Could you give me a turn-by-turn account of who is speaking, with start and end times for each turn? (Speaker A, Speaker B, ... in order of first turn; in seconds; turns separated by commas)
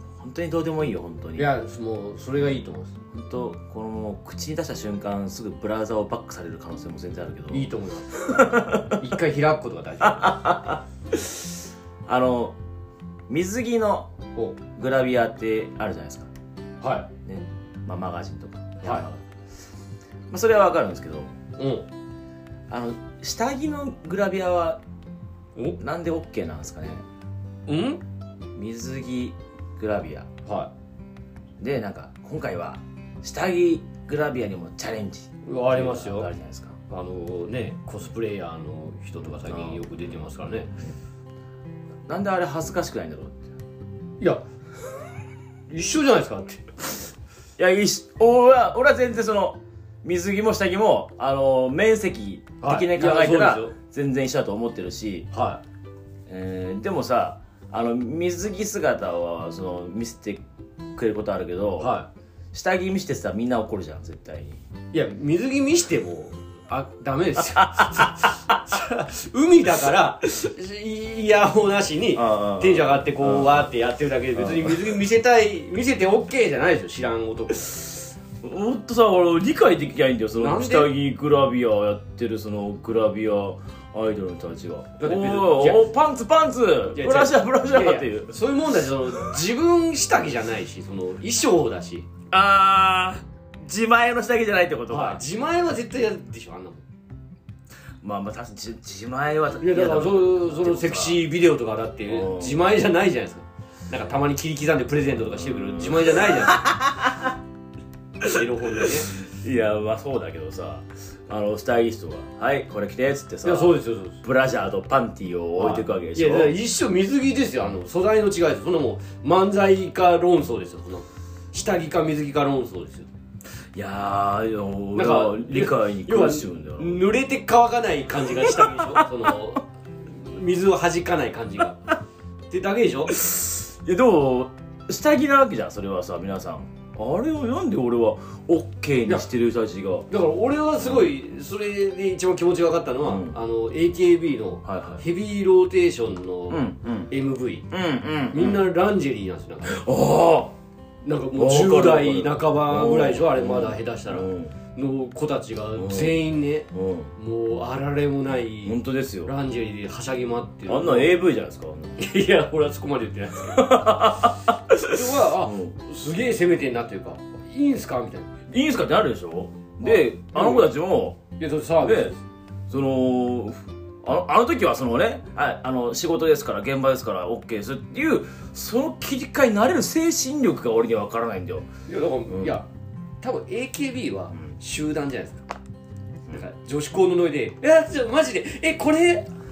Speaker A: 0.2-1.5, Speaker B: 1.4-3.0, Speaker A: 3.1-9.0, Speaker B: 7.5-10.5, Speaker A: 10.0-11.5, Speaker A: 12.1-12.6, Speaker A: 13.3-14.1, Speaker A: 14.8-16.3, Speaker B: 16.8-17.1, Speaker A: 17.3-19.1, Speaker B: 18.8-19.2, Speaker A: 20.3-21.3, Speaker B: 21.6-21.9, Speaker A: 22.7-24.8, Speaker A: 25.8-27.0, Speaker B: 27.7-28.0, Speaker A: 28.6-30.3, Speaker B: 30.4-30.7, Speaker A: 31.6-36.8, Speaker B: 35.5-36.3, Speaker B: 36.9-40.7, Speaker A: 39.5-39.9, Speaker A: 42.1-43.4, Speaker B: 45.7-47.0, Speaker A: 47.6-55.3, Speaker B: 52.6-53.8, Speaker B: 55.3-55.6, Speaker A: 56.3-60.4, Speaker A: 61.0-61.9, Speaker B: 61.8-62.1, Speaker A: 62.5-64.6, Speaker B: 64.9-77.8, Speaker A: 72.1-73.7, Speaker A: 74.3-74.9, Speaker A: 78.4-88.4, Speaker B: 80.4-80.9, Speaker B: 85.0-85.9, Speaker B: 86.9-92.1, Speaker A: 89.1-89.4, Speaker A: 92.3-95.2, Speaker B: 94.9-96.8, Speaker A: 98.0-101.2, Speaker B: 99.6-106.7, Speaker A: 102.1-102.6, Speaker A: 105.4-107.3, Speaker A: 108.2-116.6, Speaker B: 108.3-109.1, Speaker B: 113.4-114.2, Speaker B: 115.6-123.1, Speaker A: 123.8-127.0, Speaker B: 125.0-131.9, Speaker A: 128.2-129.1, Speaker B: 132.5-133.2, Speaker A: 133.1-140.1, Speaker B: 140.1-147.7, Speaker A: 140.8-141.1, Speaker A: 143.0-143.4, Speaker A: 144.7-145.0, Speaker A: 146.5-147.1, Speaker A: 147.7-148.6, Speaker B: 148.3-149.8, Speaker A: 149.7-150.6, Speaker B: 151.0-161.2, Speaker A: 151.3-154.6, Speaker A: 155.8-156.2, Speaker A: 156.7-157.1, Speaker A: 158.7-159.3, Speaker A: 160.7-162.1, Speaker B: 162.0-164.0, Speaker A: 163.5-165.8, Speaker B: 164.8-168.3, Speaker A: 168.5-171.2, Speaker B: 169.8-170.7, Speaker B: 171.4-172.2, Speaker A: 171.8-172.2, Speaker A: 172.7-181.7, Speaker B: 181.9-182.7, Speaker A: 182.3-182.6, Speaker B: 183.2-185.6, Speaker B: 186.3-189.3